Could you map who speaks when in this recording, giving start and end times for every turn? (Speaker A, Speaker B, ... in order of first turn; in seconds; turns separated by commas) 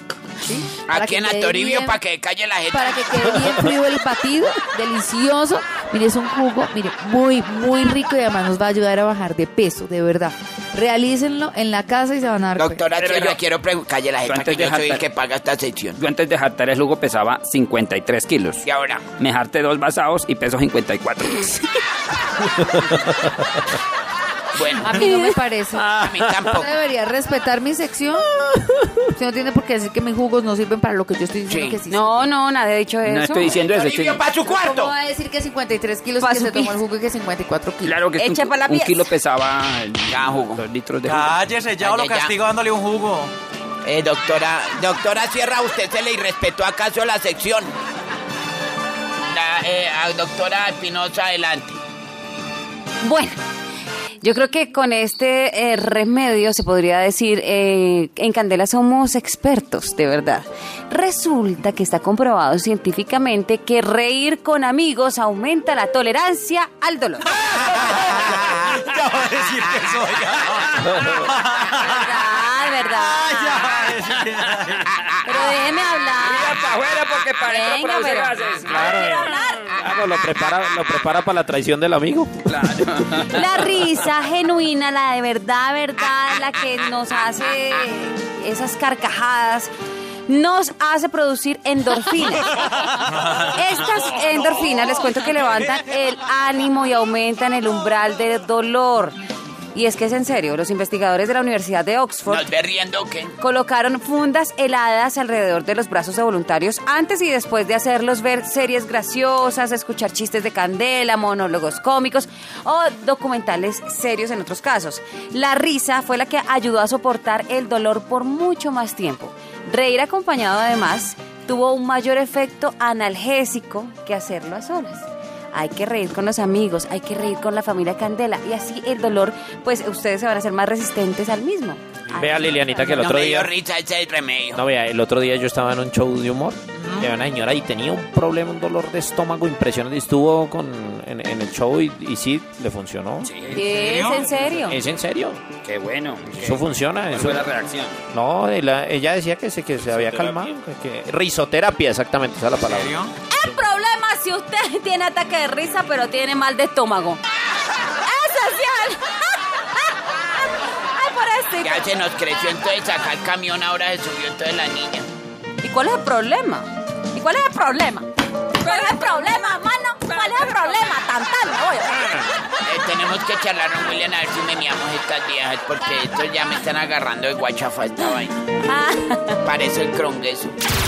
Speaker A: 0.4-2.0, Speaker B: 0.9-3.0, Speaker A: 2.7-12.8, Speaker B: 12.6-16.0, Speaker C: 13.0-13.4, Speaker C: 14.2-15.0, Speaker C: 16.0-18.6, Speaker B: 18.6-19.1, Speaker C: 19.2-21.6, Speaker D: 22.6-23.3, Speaker B: 24.5-25.1, Speaker A: 24.8-25.9, Speaker B: 25.8-26.7, Speaker A: 26.5-32.3, Speaker B: 31.5-31.8, Speaker E: 31.9-33.6, Speaker C: 33.0-34.2, Speaker B: 33.7-34.9, Speaker A: 34.5-38.1, Speaker E: 36.2-36.8, Speaker C: 37.8-41.4, Speaker E: 38.1-39.0, Speaker B: 40.1-40.6, Speaker F: 41.0-43.3, Speaker B: 41.8-42.4, Speaker B: 43.8-47.7, Speaker B: 49.3-51.8, Speaker E: 53.0-53.4, Speaker E: 54.2-67.3, Speaker F: 67.5-72.2, Speaker B: 68.2-68.5, Speaker D: 70.9-71.1, Speaker E: 71.7-73.7, Speaker F: 73.0-74.8, Speaker B: 75.0-75.4, Speaker E: 75.2-76.5, Speaker C: 76.2-79.8, Speaker E: 77.5-79.8, Speaker D: 78.7-82.4, Speaker C: 82.5-83.5, Speaker E: 83.3-89.7, Speaker E: 90.3-99.1, Speaker E: 99.7-102.5, Speaker B: 102.3-103.3, Speaker E: 103.4-133.1, Speaker D: 132.1-133.5, Speaker B: 133.0-134.6, Speaker D: 134.5-143.6, Speaker C: 143.2-143.6, Speaker F: 143.5-144.3, Speaker E: 143.5-144.8, Speaker D: 144.6-145.4, Speaker C: 145.6-148.0, Speaker D: 146.3-147.5, Speaker D: 148.1-153.0, Speaker C: 149.8-150.5, Speaker F: 152.6-153.1, Speaker E: 153.3-157.2, Speaker E: 158.1-159.9, Speaker E: 160.9-161.9, Speaker B: 161.6-165.1, Speaker E: 165.6-168.1, Speaker E: 168.6-172.3, Speaker B: 172.6-178.4, Speaker E: 178.7-179.4, Speaker B: 179.4-180.5